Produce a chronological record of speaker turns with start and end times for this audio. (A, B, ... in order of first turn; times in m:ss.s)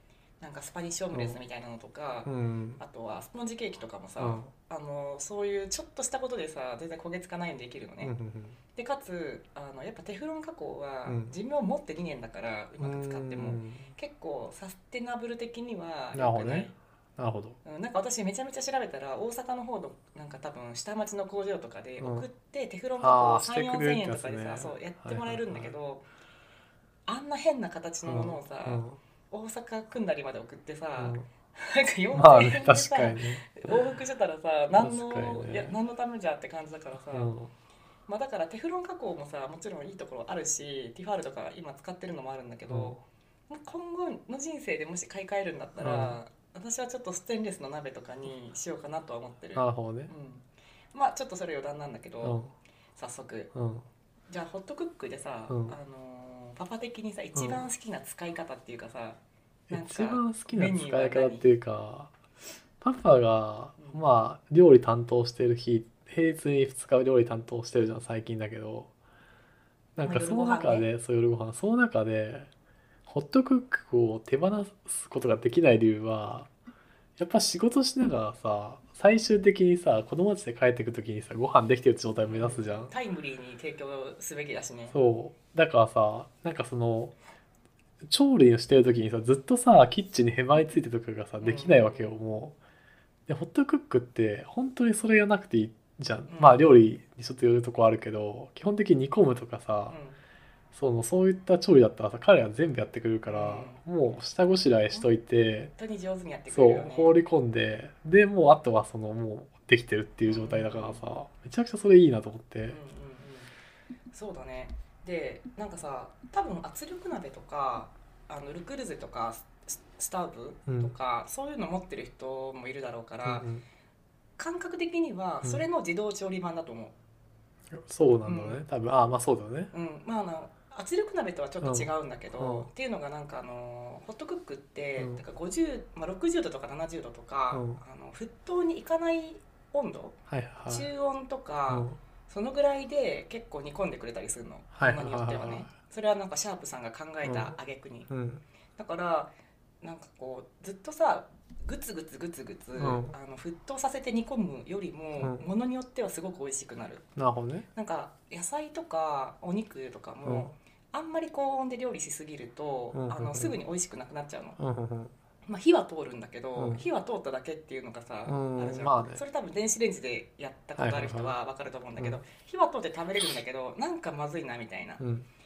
0:00.4-0:08.1 A
0:02.2-0:02.8 B
0:04.2-0:04.5 B
0:08.0-0:08.6 B
0:08.8-0:16.7 A
0:11.1-0:11.3 B
0:12.8-0:13.9 B
0:16.1-0:17.6 B
0:17.6-0:26.0 A
0:22.0-0:22.3 B
0:23.0-0:25.7 B
0:27.1-0:37.3 A
0:28.0-0:29.0 B
0:31.0-0:31.2 B
0:32.1-0:33.8 B
0:34.8-0:35.8 B
0:37.1-0:37.5 B
0:38.1-0:52.4 A
0:42.7-0:43.0 B
0:45.8-0:46.2 B
0:49.6-0:50.1 B
0:52.2-0:52.5 B
0:53.0-0:53.5 A
0:53.5-0:53.8 B
0:54.3-0:59.2 A
0:55.5-0:55.8 B
0:57.4-0:57.6 B
0:59.7-1:02.1 B
0:59.7-1:01.5 A
1:02.8-1:08.9 B
1:10.0-1:12.5 B
1:10.0-1:10.9 A
1:13.1-1:16.5 B
1:17.2-1:22.9 B
1:22.2-1:25.0 A
1:24.9-1:27.1 B
1:28.0-1:32.6 B
1:31.4-1:32.1 A
1:33.3-1:40.0 B
1:36.3-1:36.8 A
1:39.9-1:40.2 A
1:40.7-1:45.7 B
1:43.3-1:43.8 A
1:45.8-1:47.2 A
1:46.5-1:52.8 B
1:50.2-1:51.1 A
1:52.7-1:53.5 A
1:54.1-2:03.5 A
2:00.7-2:00.9 B
2:03.2-2:03.6 B
2:04.4-2:06.9 A
2:07.7-2:09.7 B
2:08.2-2:08.6 A
2:09.7-2:20.2 A
2:11.6-2:12.7 B
2:17.5-2:17.8 B
2:20.3-2:20.9 B
2:20.7-2:28.1 A
2:21.7-2:22.0 B
2:24.7-2:25.7 B
2:27.2-2:27.6 B
2:28.1-2:28.4 B
2:28.8-2:37.0 A
2:32.8-2:33.2 B
2:35.2-2:35.4 B
2:37.2-2:37.7 B
2:37.7-2:44.6 A
2:40.2-2:40.5 B
2:42.9-2:43.6 B
2:44.6-2:45.1 B
2:45.5-2:55.0 A
2:46.6-2:46.8 B
2:48.3-2:49.2 B
2:50.8-2:51.4 B
2:55.0-2:55.3 B